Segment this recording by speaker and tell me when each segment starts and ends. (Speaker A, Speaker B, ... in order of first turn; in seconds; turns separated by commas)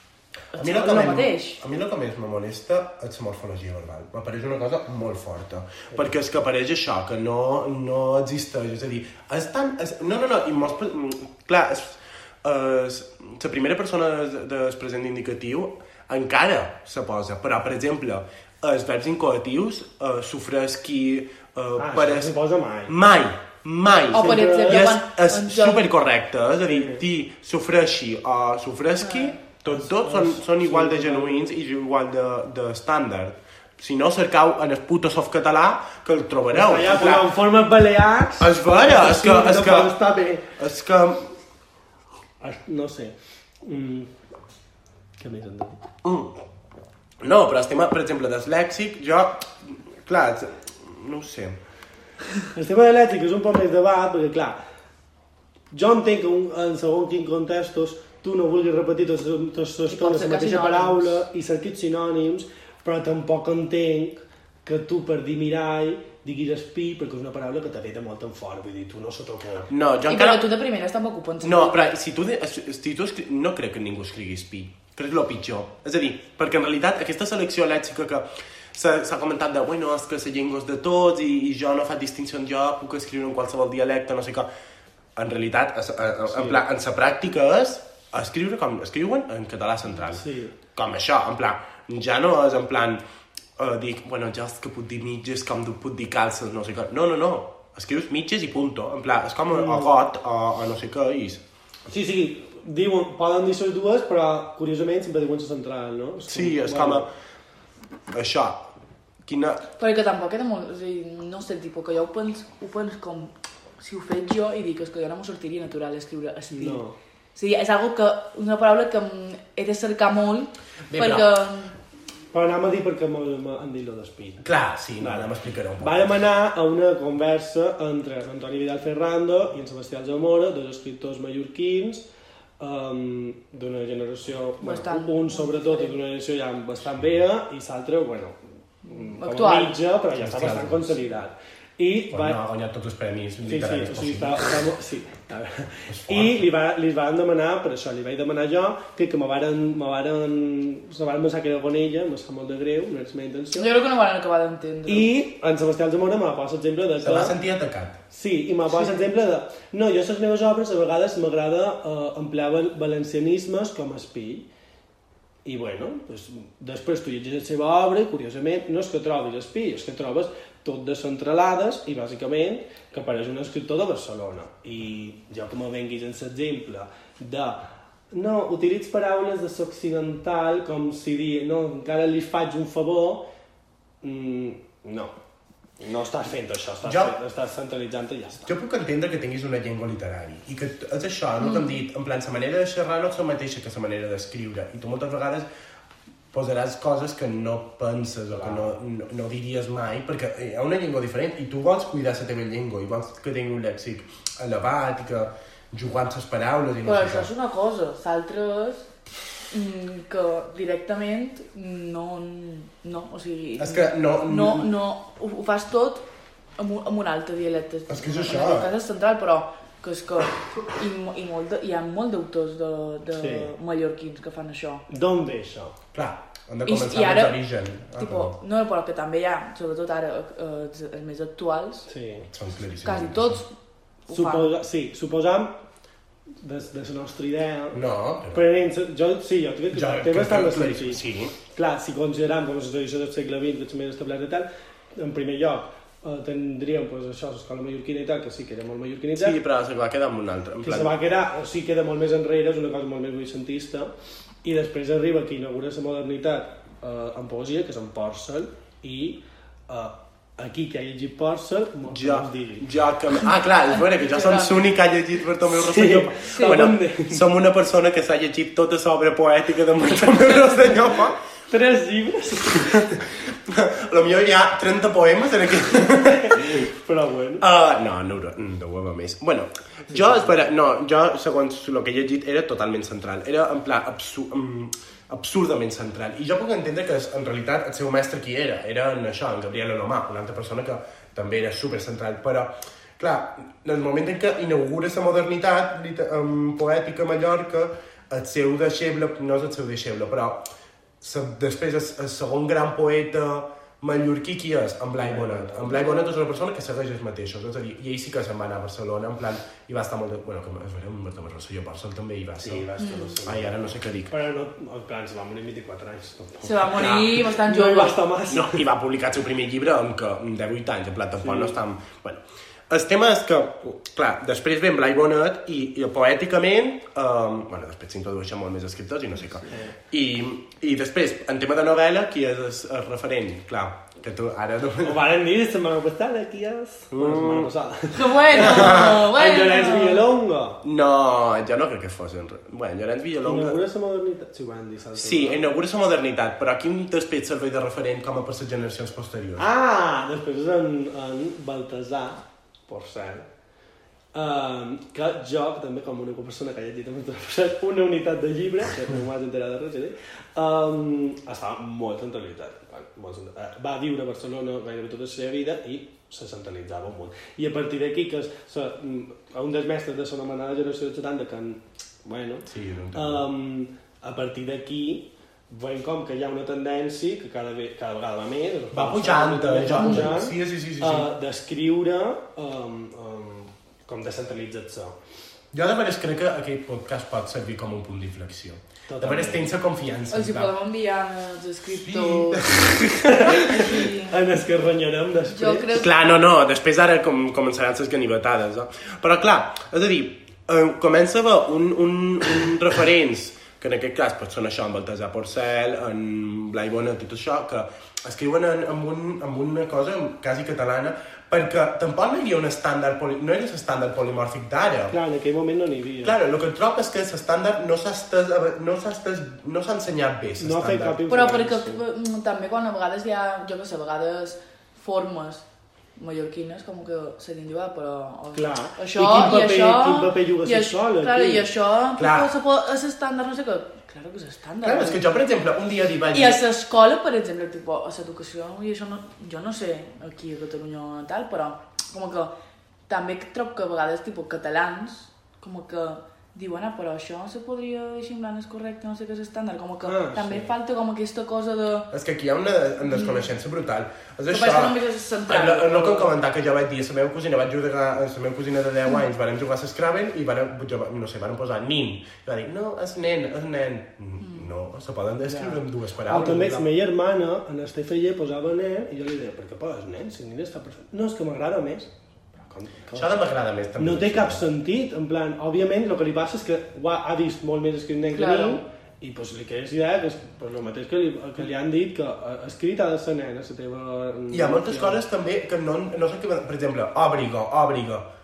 Speaker A: 0.5-1.6, Speaker B: 0.6-22.3, Speaker C: 21.8-23.0, Speaker B: 22.9-37.3, Speaker A: 24.1-25.9, Speaker C: 24.1-24.9, Speaker C: 26.7-27.0, Speaker A: 29.0-29.4, Speaker C: 29.7-31.5, Speaker C: 36.5-40.5, Speaker B: 38.4-40.0, Speaker B: 40.6-41.3, Speaker C: 42.4-44.1, Speaker C: 45.2-45.8, Speaker B: 46.0-46.3, Speaker B: 47.2-51.6, Speaker C: 52.5-54.6, Speaker C: 55.7-69.7, Speaker A: 59.9-61.2, Speaker B: 69.7-70.5, Speaker A: 70.1-71.9, Speaker B: 71.4-84.5, Speaker B: 85.2-90.2, Speaker C: 86.3-86.6, Speaker C: 90.1-90.5, Speaker B: 90.8-93.0, Speaker B: 93.6-101.4, Speaker C: 99.5-99.9, Speaker C: 101.9-107.1, Speaker B: 106.3-107.1, Speaker B: 108.1-108.7, Speaker B: 109.2-109.7, Speaker A: 109.8-116.8, Speaker C: 116.5-117.0, Speaker A: 117.3-121.8, Speaker B: 120.9-121.3, Speaker C: 122.3-124.5, Speaker B: 124.4-126.1, Speaker C: 125.0-125.3, Speaker C: 125.8-132.1, Speaker C: 132.6-142.4, Speaker A: 134.6-136.0, Speaker A: 138.9-139.8, Speaker B: 140.2-141.0, Speaker B: 142.1-144.5, Speaker C: 143.4-153.7, Speaker B: 145.9-146.4, Speaker A: 153.6-155.1, Speaker C: 154.9-157.3, Speaker B: 157.0-158.0, Speaker C: 158.1-164.5, Speaker C: 165.4-183.3, Speaker C: 184.0-185.2, Speaker C: 185.8-188.5, Speaker B: 186.8-187.2, Speaker B: 188.5-195.5, Speaker A: 191.4-191.7, Speaker B: 196.3-207.3, Speaker C: 198.3-198.7, Speaker A: 206.8-208.9, Speaker A: 209.5-216.1, Speaker B: 213.6-214.7, Speaker A: 216.6-224.8, Speaker B: 217.9-218.7, Speaker C: 223.2-223.5, Speaker C: 224.9-225.8, Speaker B: 225.9-228.3, Speaker A: 226.7-227.4, Speaker A: 228.0-231.9, Speaker C: 231.9-232.3, Speaker B: 232.3-233.4, Speaker A: 232.8-233.5, Speaker A: 234.1-234.5, Speaker C: 234.1-235.6, Speaker C: 236.4-237.8, Speaker B: 237.7-238.4, Speaker C: 238.3-249.4, Speaker B: 239.7-241.3, Speaker B: 249.2-250.9, Speaker C: 250.6-253.9, Speaker C: 254.4-262.7, Speaker B: 261.9-271.2, Speaker A: 263.8-264.6, Speaker C: 265.4-267.2, Speaker A: 266.4-266.6, Speaker C: 271.5-273.0, Speaker B: 273.2-276.7, Speaker C: 276.1-277.4, Speaker B: 277.4-300.4, Speaker B: 301.0-312.7, Speaker C: 305.0-306.1, Speaker C: 312.4-318.6, Speaker A: 312.8-313.2, Speaker B: 313.2-314.1, Speaker A: 316.4-318.0, Speaker B: 316.7-317.1, Speaker B: 318.3-335.0, Speaker C: 321.2-321.6, Speaker C: 329.5-329.8, Speaker C: 334.8-340.6, Speaker B: 336.9-337.5, Speaker A: 337.9-340.0, Speaker B: 338.3-339.0, Speaker B: 340.6-343.6, Speaker C: 343.2-345.5, Speaker B: 344.9-349.5, Speaker C: 349.4-353.3, Speaker C: 354.1-385.0, Speaker B: 372.5-373.2, Speaker B: 378.7-381.1, Speaker A: 379.7-380.2, Speaker B: 385.5-390.5, Speaker C: 388.9-389.4, Speaker A: 390.1-392.7, Speaker B: 391.7-393.3, Speaker C: 392.6-395.7, Speaker A: 393.2-394.2, Speaker A: 395.3-395.9, Speaker B: 395.8-415.0, Speaker C: 414.9-416.2, Speaker B: 416.0-421.0, Speaker C: 420.4-421.8, Speaker A: 421.1-435.2, Speaker C: 428.3-431.5, Speaker B: 432.0-432.3, Speaker B: 434.6-436.4, Speaker A: 436.1-442.3, Speaker A: 442.9-451.9, Speaker C: 449.8-450.5, Speaker B: 451.9-466.7, Speaker A: 452.9-453.3, Speaker A: 454.3-456.1, Speaker C: 465.3-473.2, Speaker B: 472.9-474.4, Speaker C: 473.8-485.0, Speaker A: 478.1-478.6, Speaker B: 484.3-488.1